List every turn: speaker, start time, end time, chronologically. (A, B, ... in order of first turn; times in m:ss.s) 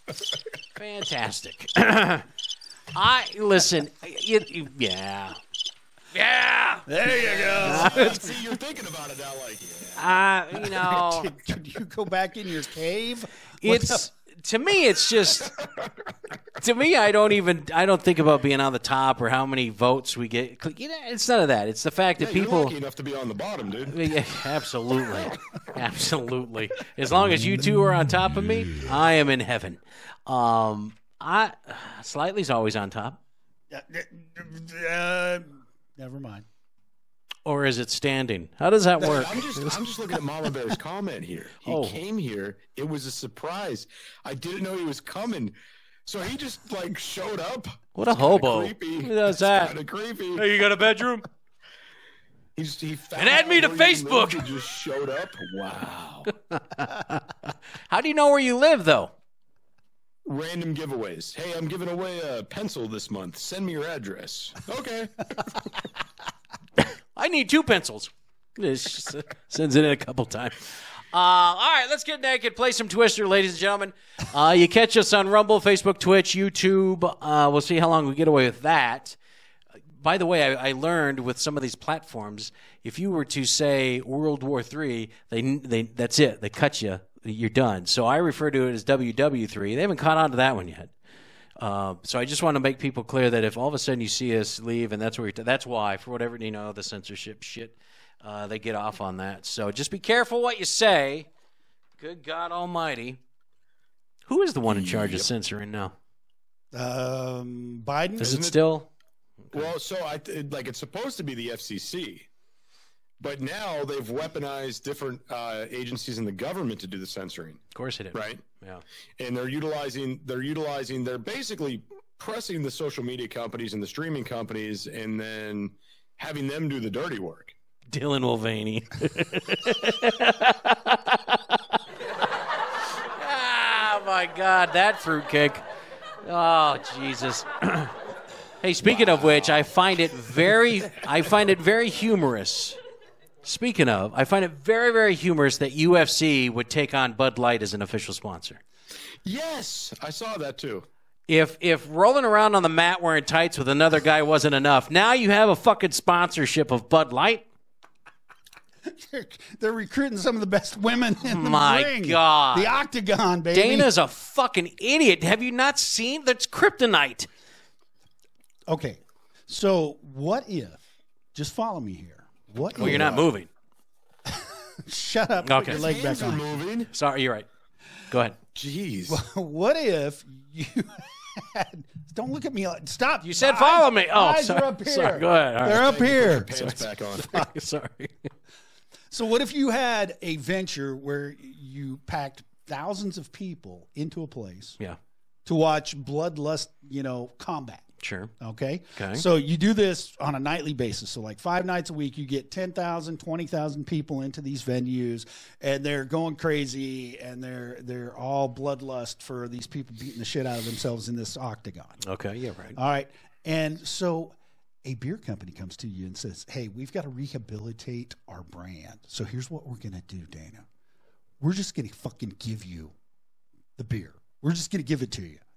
0:00.7-0:02.2 A
0:02.9-0:05.4 A
0:06.1-0:06.9 A
0:06.9-0:08.4 B
0:07.1-0:10.2 C
0:07.6-0:08.2 A
0:10.0-0:11.3 A
0:10.8-0:14.1 B
0:13.6-0:15.5 A
0:15.4-0:15.9 C
0:16.6-0:22.7 A
0:22.2-0:24.1 C
0:23.9-0:33.2 A
0:33.7-0:36.4 B
0:37.4-0:39.8 A
0:39.0-0:45.5 C
0:41.6-0:42.0 A
0:46.0-0:50.4 C
0:47.9-0:49.8 A
0:50.4-0:51.2 A
0:52.6-0:56.3 C
0:53.2-0:54.5 A
0:56.2-0:59.1 A
1:00.2-1:05.7 C
1:06.8-1:19.2 A
1:20.0-1:30.9 A
1:31.6-1:41.3 A
1:42.0-1:43.2 A
1:44.3-1:45.9 A
1:44.7-1:45.3 C
1:46.7-1:48.4 B
1:48.2-1:48.9 A
1:48.2-1:48.6 C
1:49.5-1:52.3 C
1:53.2-1:58.4 C
1:57.7-1:58.8 A
1:59.2-2:07.5 C
2:07.9-2:11.6 A
2:13.1-2:15.6 A
2:16.2-2:17.9 A
2:18.6-2:22.8 A
2:23.4-2:28.6 A
2:29.2-2:30.8 C
2:31.3-2:37.4 A
2:38.8-2:43.9 B
2:41.2-2:42.8 A
2:43.5-2:47.3 A
2:48.7-2:50.8 B
2:51.3-2:53.2 B
2:52.8-2:53.2 C
2:52.8-2:53.5 A
2:54.3-2:56.4 B
2:55.4-2:55.8 A
2:55.6-2:56.9 C
2:56.9-2:57.4 A
2:58.1-2:58.4 A
2:58.5-2:59.2 C
2:59.1-3:06.5 B
3:03.2-3:08.3 A
3:05.6-3:07.4 C
3:09.1-3:14.8 B
3:15.4-3:17.8 B
3:18.0-3:18.3 A
3:18.4-3:32.0 B
3:18.9-3:19.2 A
3:32.0-3:32.8 A
3:32.8-3:40.6 B
3:41.4-3:42.9 B
3:43.8-3:45.4 B